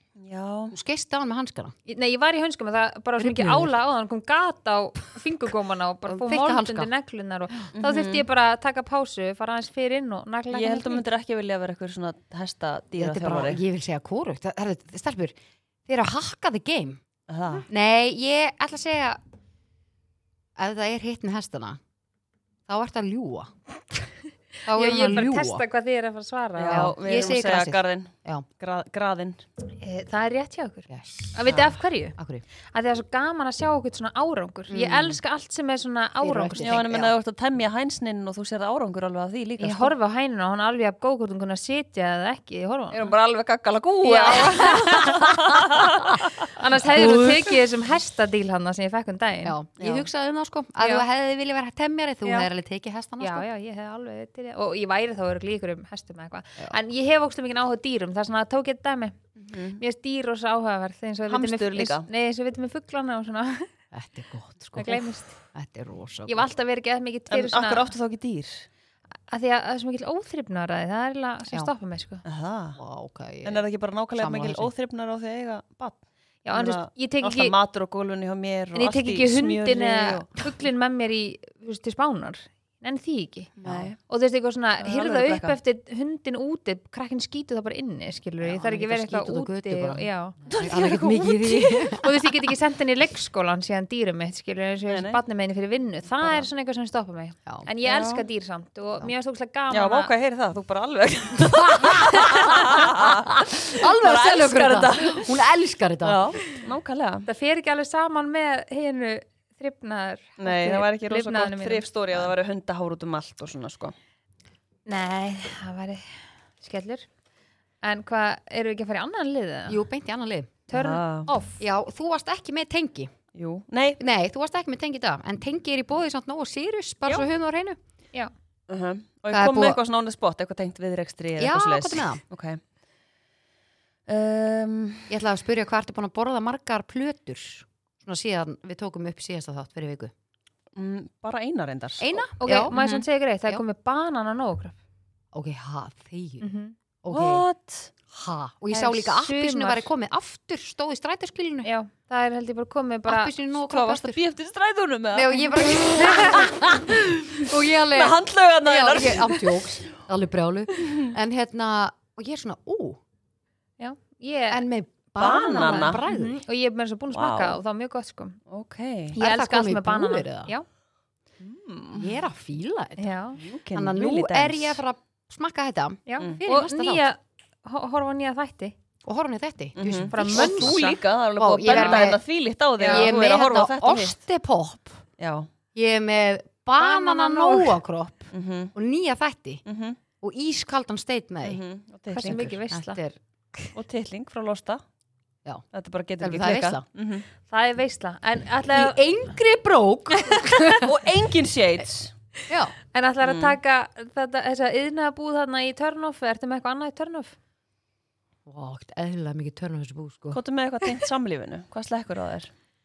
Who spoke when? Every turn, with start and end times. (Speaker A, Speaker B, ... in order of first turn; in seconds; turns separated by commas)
Speaker A: 0.2-0.8, Speaker B: 0.7-1.7, Speaker C: 1.9-11.1, Speaker B: 3.2-3.7, Speaker B: 6.1-6.9, Speaker A: 7.8-8.2, Speaker A: 10.5-13.6, Speaker B: 13.0-15.4, Speaker B: 15.9-17.0, Speaker A: 17.3-17.7, Speaker B: 17.7-19.2, Speaker B: 20.6-21.8, Speaker B: 22.7-24.1, Speaker B: 24.7-25.6, Speaker C: 24.7-26.9, Speaker A: 26.6-29.4, Speaker B: 26.7-28.5, Speaker C: 29.7-32.2, Speaker B: 30.9-31.4, Speaker A: 31.5-31.8, Speaker B: 32.2-32.4, Speaker C: 32.7-36.9, Speaker B: 34.7-35.2, Speaker B: 36.2-37.1, Speaker A: 36.6-40.0, Speaker C: 39.6-43.1, Speaker A: 42.9-47.4, Speaker C: 44.0-45.3, Speaker C: 46.5-49.6, Speaker B: 47.0-47.3, Speaker B: 49.4-53.5, Speaker A: 49.8-50.1, Speaker C: 50.8-51.1, Speaker C: 53.2-59.2, Speaker A: 59.5-59.8, Speaker C: 59.8-63.7, Speaker A: 61.3-62.1, Speaker B: 63.9-66.5, Speaker C: 64.8-65.4, Speaker C: 66.3-67.9, Speaker A: 67.3-68.7, Speaker C: 69.3-72.2, Speaker A: 72.2-72.8, Speaker B: 72.8-73.6, Speaker A: 73.4-80.5, Speaker B: 74.2-74.7, Speaker C: 76.5-77.5, Speaker C: 78.8-83.5, Speaker A: 83.6-84.0, Speaker B: 83.6-83.9, Speaker C: 84.1-90.4, Speaker A: 84.8-85.6, Speaker B: 88.4-92.1, Speaker A: 90.5-92.0, Speaker C: 91.9-100.1, Speaker A: 94.9-95.2, Speaker A: 97.8-98.2, Speaker A: 99.7-105.5, Speaker B: 101.5-106.4, Speaker A: 106.0-107.3, Speaker C: 107.3-111.9, Speaker A: 110.4-114.0, Speaker C: 114.9-117.1, Speaker C: 117.8-119.8, Speaker B: 119.7-120.7, Speaker C: 120.7-121.6, Speaker A: 120.7-121.3, Speaker B: 121.6-123.1, Speaker A: 123.3-124.0, Speaker B: 124.0-127.8, Speaker A: 128.7-132.6, Speaker B: 129.3-129.8, Speaker B: 131.4-132.2, Speaker A: 134.1-135.1, Speaker B: 135.1-140.1, Speaker A: 140.8-143.1, Speaker B: 142.0-142.8, Speaker C: 142.4-144.8, Speaker B: 145.3-146.5, Speaker C: 146.4-146.8, Speaker B: 147.0-147.4, Speaker A: 147.1-147.9, Speaker B: 148.1-151.7, Speaker C: 148.7-149.9, Speaker C: 151.6-153.3, Speaker B: 153.1-154.2, Speaker A: 153.6-159.9, Speaker B: 155.1-163.0, Speaker C: 156.0-156.4, Speaker A: 160.8-161.1, Speaker C: 163.8-164.7, Speaker B: 164.5-166.4, Speaker A: 165.2-166.0, Speaker C: 165.5-168.4, Speaker A: 167.1-167.6, Speaker A: 168.5-169.2, Speaker C: 169.2-170.7, Speaker B: 169.2-170.5, Speaker A: 171.4-172.2, Speaker B: 171.9-173.2, Speaker C: 173.0-173.4, Speaker A: 173.4-174.8, Speaker B: 173.7-177.1, Speaker C: 176.1-178.8, Speaker B: 179.0-180.8, Speaker A: 179.8-184.2, Speaker C: 180.1-181.0, Speaker B: 181.4-182.2, Speaker C: 181.7-182.1, Speaker C: 182.8-183.1, Speaker B: 182.8-185.0, Speaker A: 185.2-185.5, Speaker B: 185.7-189.6, Speaker C: 186.8-187.8, Speaker A: 188.3-188.7, Speaker A: 189.7-190.0, Speaker B: 190.2-191.6, Speaker A: 191.4-192.5, Speaker C: 192.1-193.0, Speaker B: 192.2-193.7, Speaker A: 193.8-194.8, Speaker A: 195.7-197.3, Speaker B: 196.2-196.8, Speaker C: 197.5-199.0, Speaker B: 198.7-200.9, Speaker C: 200.3-200.8, Speaker A: 200.8-202.1, Speaker B: 202.5-202.7, Speaker C: 202.9-207.4, Speaker A: 203.2-203.6, Speaker B: 208.5-210.4, Speaker A: 210.3-212.5